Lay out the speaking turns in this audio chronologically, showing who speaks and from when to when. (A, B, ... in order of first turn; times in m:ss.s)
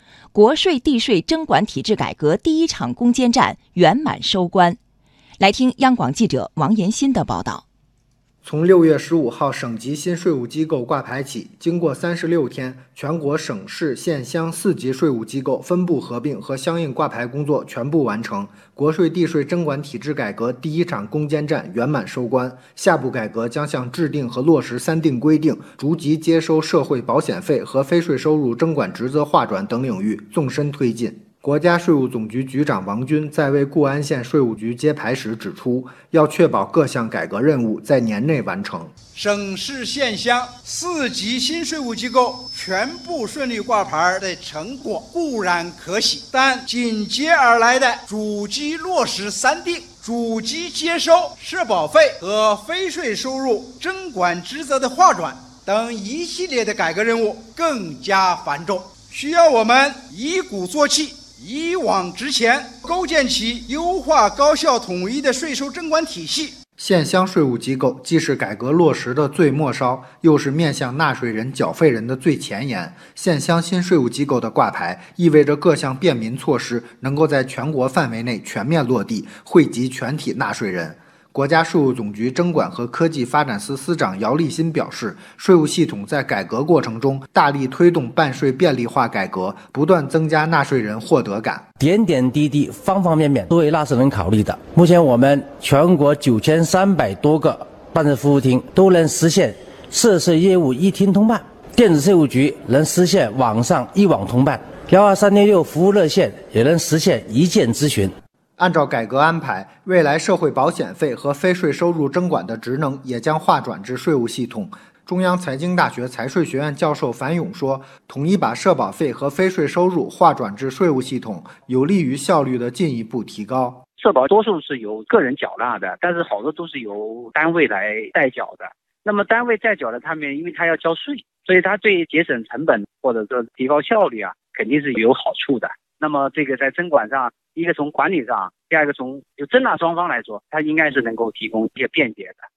0:00.3-0:04.8 A
0:05.4-0:07.6 A
0:08.4-0:38.9 B
0:39.1-1:06.6 C
1:06.8-1:31.6 B
1:31.8-1:48.1 D
1:48.6-2:03.8 B
2:04.0-2:22.4 E